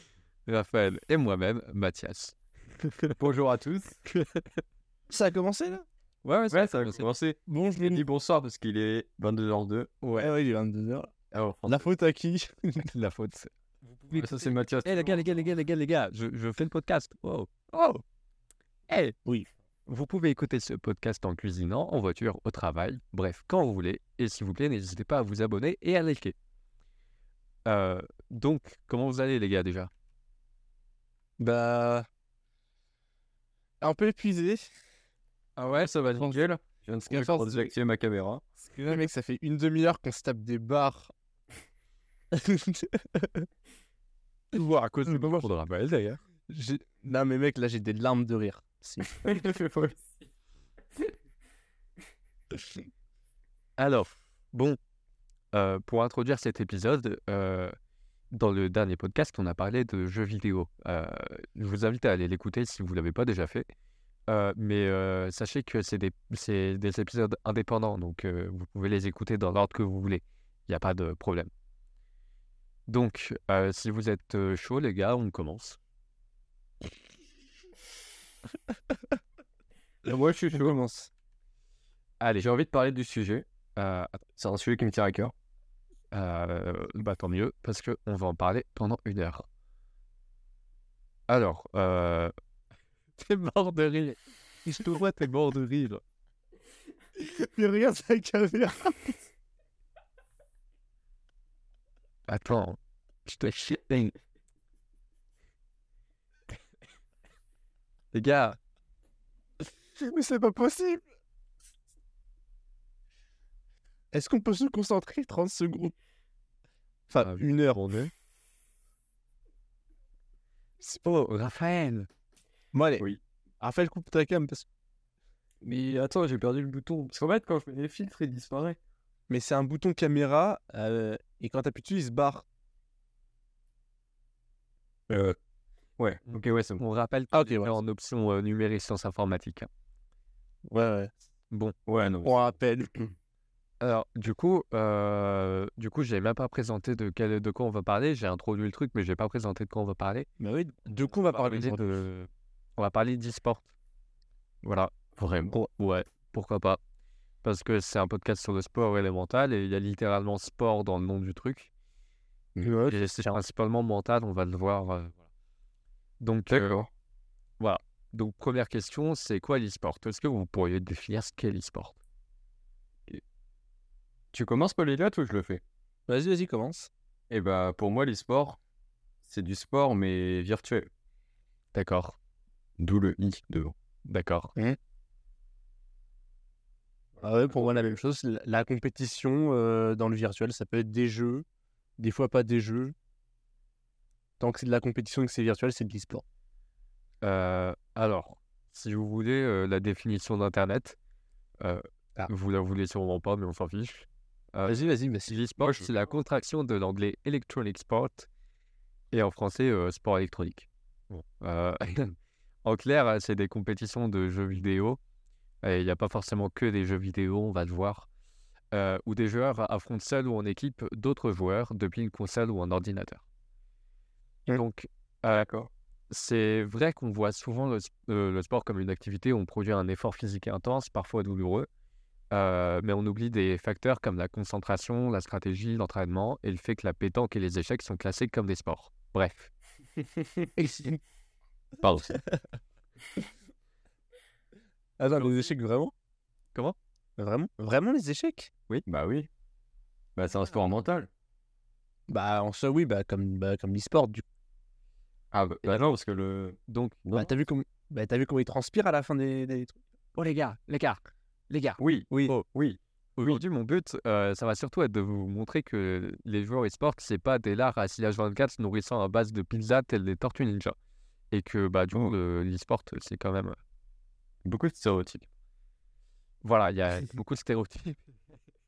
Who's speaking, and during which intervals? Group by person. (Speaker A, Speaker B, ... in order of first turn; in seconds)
Speaker A: 0.5-3.2, 4.1-4.4, 6.2-7.1, 10.0-10.3, 12.8-18.0, 18.9-19.2, 19.9-26.4, 27.7-29.9, 35.6-35.9, 44.5-46.2, 53.8-54.8, 55.5-57.7, 58.3-63.7, 64.3-71.5, 72.9-75.8, 82.2-82.5, 83.8-84.2, 86.1-89.5, 91.3-92.3, 93.2-96.0, 102.3-104.1, 108.1-108.6, 117.2-118.1, 120.8-122.1, 136.3-139.7, 143.8-150.3, 151.3-153.7, 154.6-154.9, 155.8-156.8, 157.4-161.7, 162.9-165.2, 166.2-166.7, 167.6-172.0, 181.7-182.2, 184.1-184.5, 197.2-201.0, 201.6-208.3, 209.1-215.0, 215.6-218.1, 218.7-223.2, 224.5-225.5, 226.1-231.7, 232.3-239.5, 256.7-257.0, 260.2-262.5, 263.2-270.8, 271.3-273.6, 276.4-278.0
Speaker B: 3.2-4.0, 6.5-9.9, 11.3-11.9, 14.1-15.3, 35.6-38.4, 49.0-50.0, 80.0-80.8, 82.4-83.5, 84.4-85.3, 125.6-128.8, 136.0-136.8, 141.9-142.3, 155.2-155.6, 166.5-166.9, 174.3-175.6, 177.3-178.6, 179.2-180.9, 182.8-183.7, 205.6-205.9, 225.3-225.7, 241.8-242.1, 248.9-249.3, 250.2-251.1, 255.3-257.3, 261.8-263.4, 274.4-275.3
Speaker C: 5.1-5.8, 7.5-8.1, 10.2-11.1, 11.7-12.9, 31.4-32.1, 33.8-34.6, 37.1-37.6, 38.7-41.1, 42.3-43.5, 45.1-45.5, 46.5-49.2, 80.5-81.1, 97.2-99.2, 110.0-111.0, 114.1-115.9, 117.1-117.8, 122.7-123.1, 123.6-124.7, 129.3-132.4, 137.3-137.8, 140.7-141.1, 142.2-142.9, 150.4-152.0, 162.6-163.4, 176.1-176.9, 187.2-191.4, 192.0-192.9, 194.4-196.2, 204.7-205.3, 240.6-241.0, 245.0-245.9, 247.2-248.5, 252.1-254.2, 257.1-259.8